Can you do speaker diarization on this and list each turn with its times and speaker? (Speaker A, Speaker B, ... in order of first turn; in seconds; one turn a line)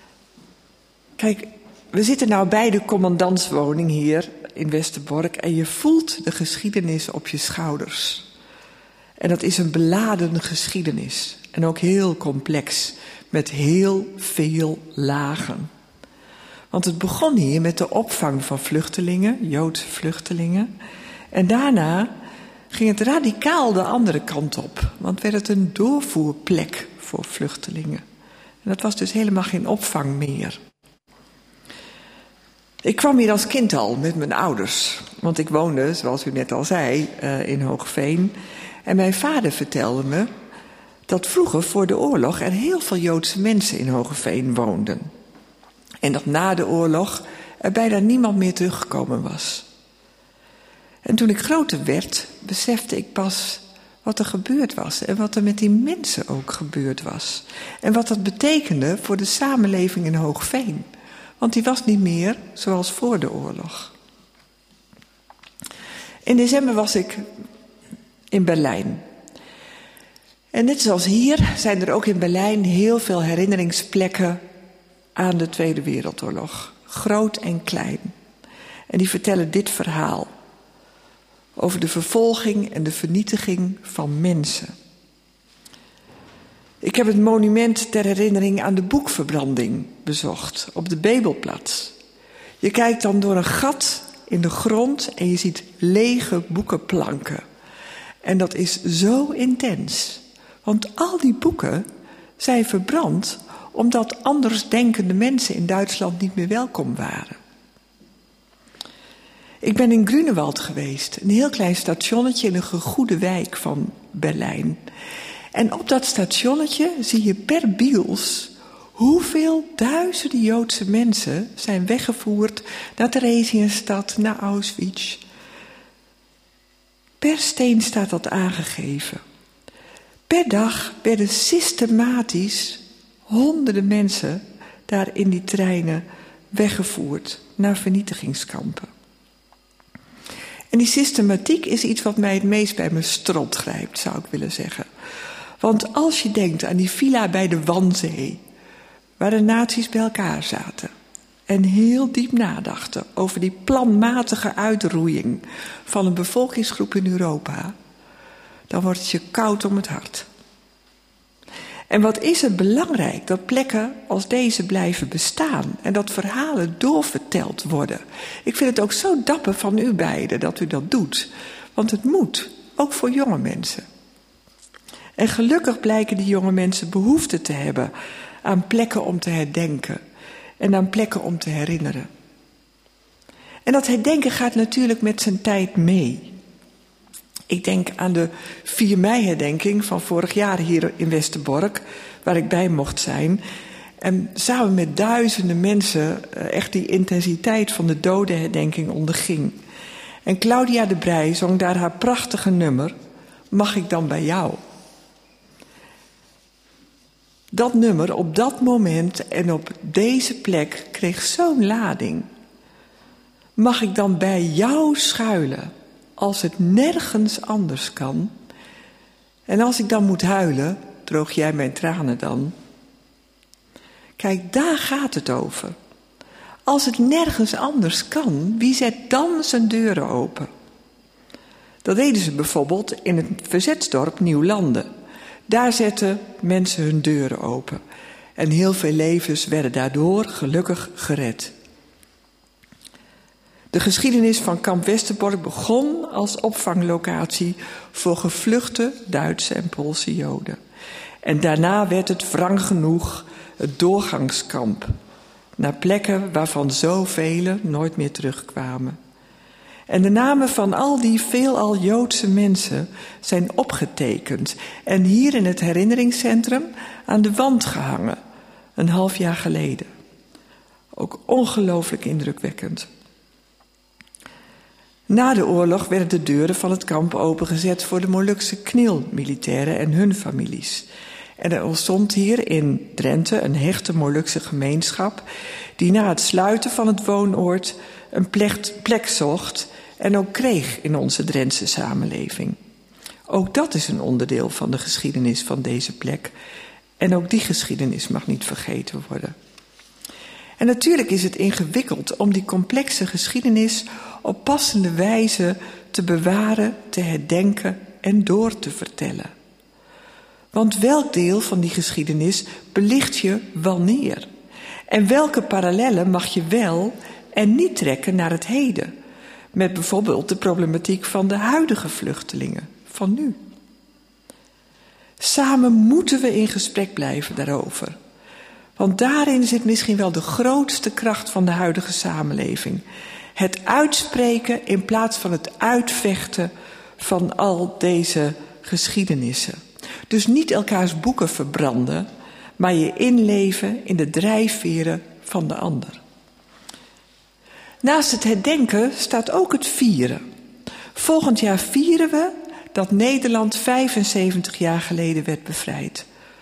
Speaker A: 1.2-8.3
Speaker A: 9.2-15.7
Speaker A: 16.7-20.7
Speaker A: 21.3-22.1
Speaker A: 22.7-28.0
Speaker A: 28.6-30.6
Speaker A: 32.8-38.3
Speaker A: 38.9-40.3
Speaker A: 41.1-45.1
Speaker A: 46.0-49.7
Speaker A: 51.0-60.9
Speaker A: 61.4-63.9
Speaker A: 66.2-67.3
Speaker A: 68.3-69.0
Speaker A: 70.5-74.4
Speaker A: 75.2-78.1
Speaker A: 78.9-80.3
Speaker A: 81.6-84.7
Speaker A: 86.8-92.0
Speaker A: 92.6-97.4
Speaker A: 98.2-101.9
Speaker A: 102.4-107.4
Speaker A: 109.6-114.8
Speaker A: 115.5-125.2
Speaker A: 127.2-129.2
Speaker A: 130.3-138.9
Speaker A: 140.7-144.9
Speaker A: 145.6-148.4
Speaker A: 149.2-150.9
Speaker A: 151.5-157.7
Speaker A: 158.7-160.3
Speaker A: 161.9-173.8
Speaker A: 175.2-177.9
Speaker A: 178.4-180.0
Speaker A: 180.6-182.1
Speaker A: 183.7-186.3
Speaker A: 187.5-193.4
Speaker A: 194.0-199.6
Speaker A: 200.2-202.9
Speaker A: 203.5-204.6
Speaker A: 207.5-212.3
Speaker A: 213.6-218.3
Speaker A: 219.5-222.6
Speaker A: 224.2-225.8
Speaker A: 226.7-230.5
Speaker A: 231.8-234.9
Speaker A: 235.5-237.8
Speaker A: 238.4-241.5
Speaker A: 243.7-250.6
Speaker A: 251.2-254.9
Speaker A: 255.6-259.0
Speaker A: 259.9-268.2
Speaker A: 268.8-269.9
Speaker A: 270.9-272.9
Speaker A: 275.1-280.9
Speaker A: 281.4-285.2
Speaker A: 285.8-292.6
Speaker A: 293.3-296.3
Speaker A: 297.0-299.4
Speaker A: 300.6-309.3
Speaker A: 310.5-314.3
Speaker A: 314.9-318.9
Speaker A: 319.5-323.4
Speaker A: 325.2-328.0
Speaker A: 328.8-332.8
Speaker A: 333.4-346.0
Speaker A: 347.8-350.2
Speaker A: 350.9-356.1